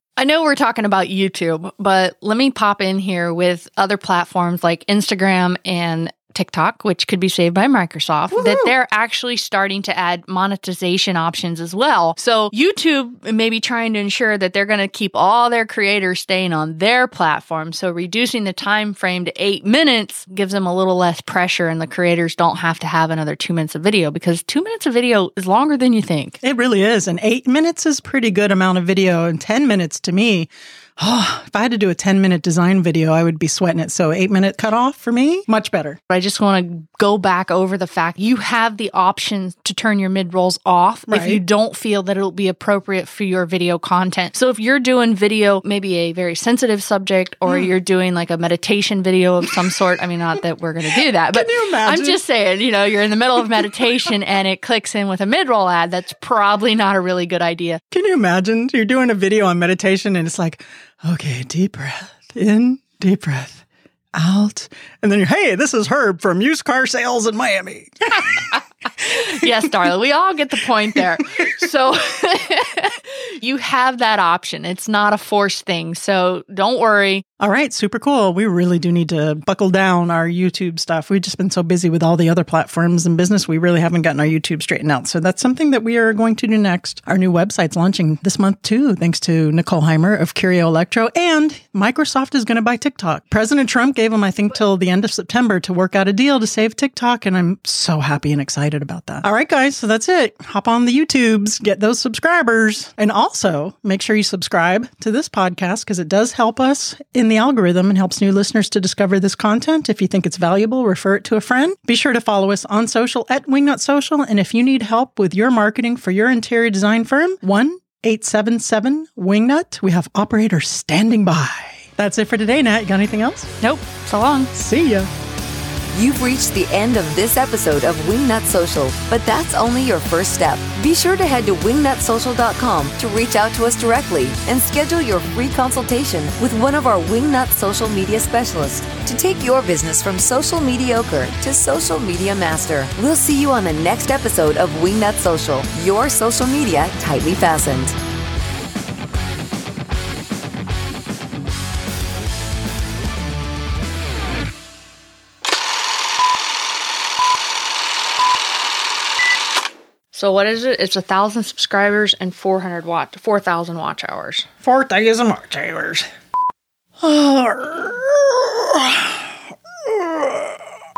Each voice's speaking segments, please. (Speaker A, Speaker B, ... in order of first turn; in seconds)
Speaker A: 0.2-26.4, 36.1-57.8, 69.0-77.2, 123.6-124.5, 160.1-164.5
Speaker B: 8.3-8.7, 26.4-36.0, 41.1-41.4, 47.5-47.7, 51.0-52.2, 53.5-53.9, 57.9-63.6, 64.2-68.6, 77.4-123.5, 124.5-125.1, 164.6-166.1, 167.0-169.2, 169.9-170.5
Speaker C: 125.9-148.0